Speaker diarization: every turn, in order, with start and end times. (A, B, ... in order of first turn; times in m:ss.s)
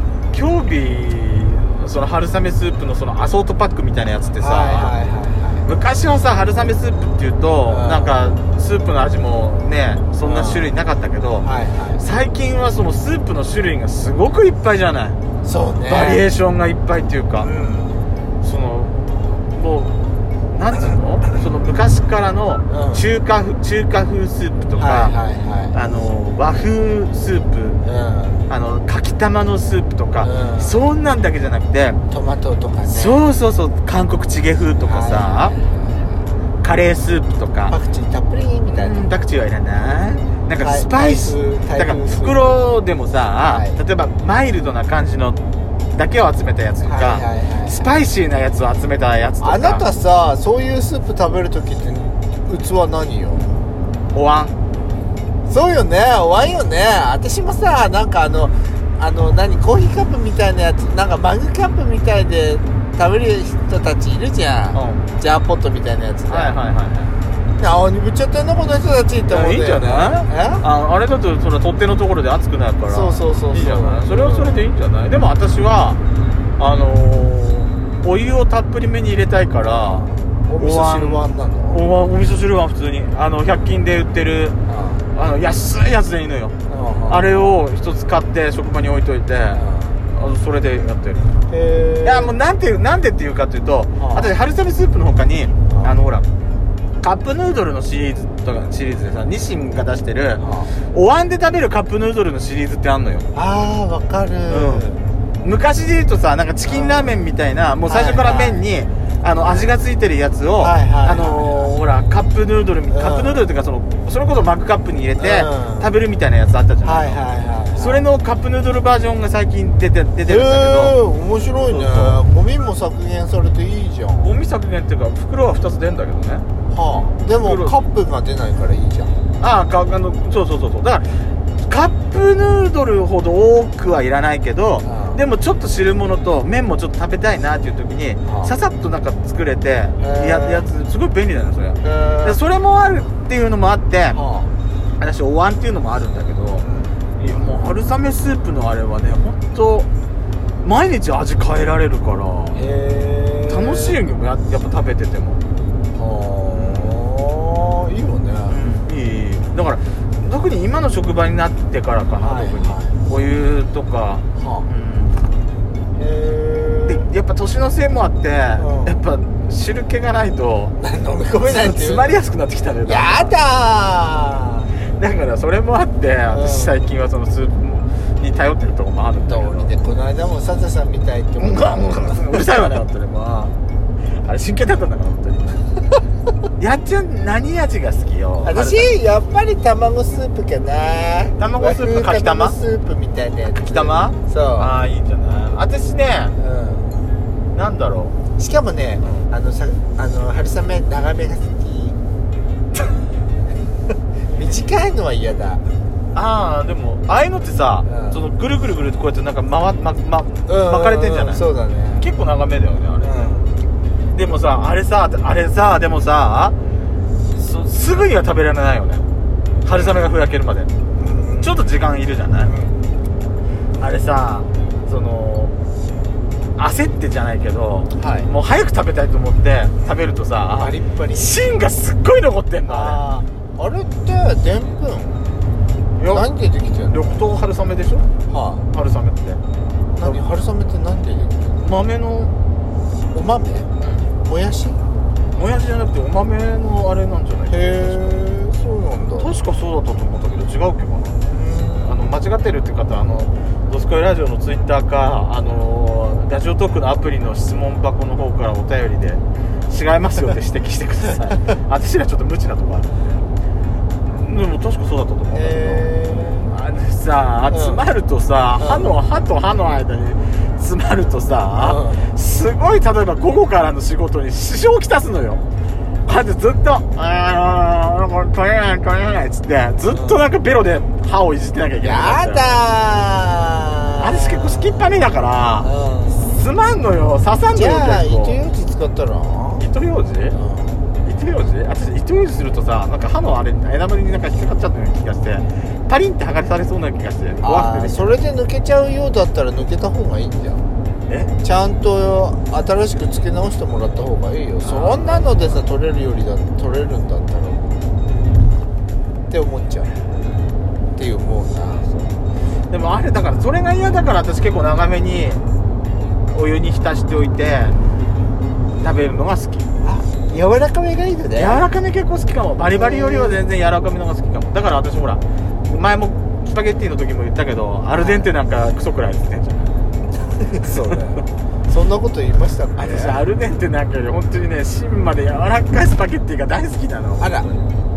0:00.3-0:05.0 A
0:04.4-0:05.7 B
0:05.6-0:15.2 A
0:07.6-0:08.2 B
0:10.2-0:10.8 B
0:11.4-0:12.0 B
0:15.4-0:16.2 B
0:15.8-0:17.5 A
0:17.4-0:18.0 B
0:18.4-0:19.0 A
0:19.5-0:19.9 A
0:20.5-0:25.2 A
0:22.7-0:23.0 B
0:24.8-0:25.8 B
0:25.7-0:27.8 A
0:27.8-0:28.5 B
0:28.5-0:32.0 A
0:30.2-0:30.8 B
0:32.1-0:33.2 B
0:32.8-0:35.6 A
0:34.8-0:36.2 B
0:36.6-0:37.8 A
0:37.7-0:39.1 B
0:38.7-0:45.4 A
0:40.6-0:42.6 B
0:43.4-0:43.8 B
0:46.0-0:49.8 A
0:46.8-0:47.9 B
0:49.4-0:53.6 B
0:54.1-0:54.5 A
0:55.5-1:06.6 B
1:04.7-1:05.1 A
1:06.3-1:07.1 A
1:07.6-1:10.6 B
1:09.2-1:16.0 A
1:12.8-1:14.7 B
1:16.6-1:20.0 A
1:19.6-1:21.8 B
1:20.6-1:24.6 A
1:24.7-1:25.0 B
1:25.1-1:26.6 A
1:26.7-1:27.3 B
1:27.1-1:31.4 A
1:29.5-1:30.0 B
1:31.5-1:32.4 B
1:32.0-1:36.3 A
1:34.0-1:34.3 B
1:35.7-1:35.9 B
1:37.0-1:43.3 A
1:40.4-1:40.7 B
1:43.3-1:45.0 B
1:44.5-1:44.9 A
1:45.4-1:57.2 A
1:46.6-1:47.3 B
1:47.8-1:48.7 B
1:49.4-1:49.7 B
1:50.6-1:51.7 B
1:52.9-1:53.5 B
1:55.2-1:55.9 B
1:56.8-1:58.1 B
1:57.8-2:01.0 A
2:00.2-2:04.3 B
2:01.6-2:02.2 A
2:04.2-2:06.4 A
2:06.7-2:09.2 B
2:07.4-2:07.7 A
2:09.4-2:24.2 A
2:14.8-2:15.2 B
2:18.2-2:18.5 B
2:20.0-2:20.7 B
2:21.8-2:22.4 B
2:24.1-2:24.5 B
2:25.0-2:26.7 A
2:26.6-2:27.0 B
2:27.2-2:29.9 A
2:30.6-2:32.7 A
2:32.5-2:34.0 B
2:33.5-2:35.4 A
2:35.9-2:38.6 B
2:36.5-2:37.0 A
2:38.5-2:45.2 A
2:42.1-2:42.9 B
2:44.4-2:44.7 B
2:46.0-2:47.1 B
2:46.8-2:50.8 A
2:48.6-2:49.0 B
2:50.8-2:52.2 B
2:51.3-2:53.3 A
2:52.8-2:54.8 B
2:54.9-2:59.7 A
2:56.3-2:56.8 B
2:59.2-3:02.4 B
3:01.4-3:03.6 A
3:04.2-3:05.7 A
3:06.6-3:08.9 A
3:08.4-3:14.7 B
3:11.4-3:12.6 A
3:13.6-3:16.3 A
3:16.4-3:17.0 B
3:17.5-3:18.2 A
3:18.4-3:22.0 B
3:24.3-3:25.6 B
3:26.1-3:31.4 A
3:27.8-3:28.2 B
3:30.4-3:32.1 B
3:32.0-3:33.3 A
3:33.0-3:33.5 B
3:34.1-3:36.6 A
3:37.4-3:39.1 A
3:39.6-3:40.7 A
3:40.9-3:41.6 B
3:41.4-3:42.5 A
3:42.4-3:42.9 B
3:43.8-3:45.5 A
3:46.6-3:53.0 A
3:47.9-3:48.3 B
3:50.4-3:51.4 B
3:52.6-3:55.2 B
3:56.0-3:56.3 A
3:56.0-3:57.3 B
3:56.9-3:58.1 A
3:58.3-3:58.7 B
3:58.7-3:59.4 A
3:59.9-4:01.7 B
4:01.6-4:02.3 A
4:03.1-4:03.7 B
4:03.8-4:04.1 A
4:04.2-4:04.8 B
4:05.3-4:08.2 A
4:07.5-4:09.4 B
4:09.2-4:11.2 A
4:11.3-4:12.2 B
4:11.8-4:22.9 A
4:24.1-4:25.9 A
4:25.3-4:26.5 B
4:26.5-4:35.4 A
4:27.5-4:27.8 B
4:28.6-4:28.9 B
4:31.6-4:32.2 B
4:36.0-4:42.6 A
4:39.9-4:40.2 B
4:41.8-4:44.8 B
4:44.0-4:48.4 A
4:45.6-4:46.4 B
4:47.5-4:49.7 B
4:49.6-4:50.4 A
4:50.3-4:50.8 B
4:51.0-4:58.2 A
4:57.4-5:00.6 B
5:01.1-5:01.3 A
5:01.4-5:07.8 B
5:04.6-5:05.6 A
5:09.3-5:10.0 B
5:10.9-5:12.2 B
5:12.7-5:15.4 A
5:16.3-5:17.8 A
5:18.8-5:19.7 A
5:19.8-5:21.6 B
5:21.3-5:29.7 A
5:22.7-5:23.4 B
5:27.9-5:28.3 B
5:30.3-5:33.2 B
5:32.8-5:37.8 A
5:37.2-5:37.5 B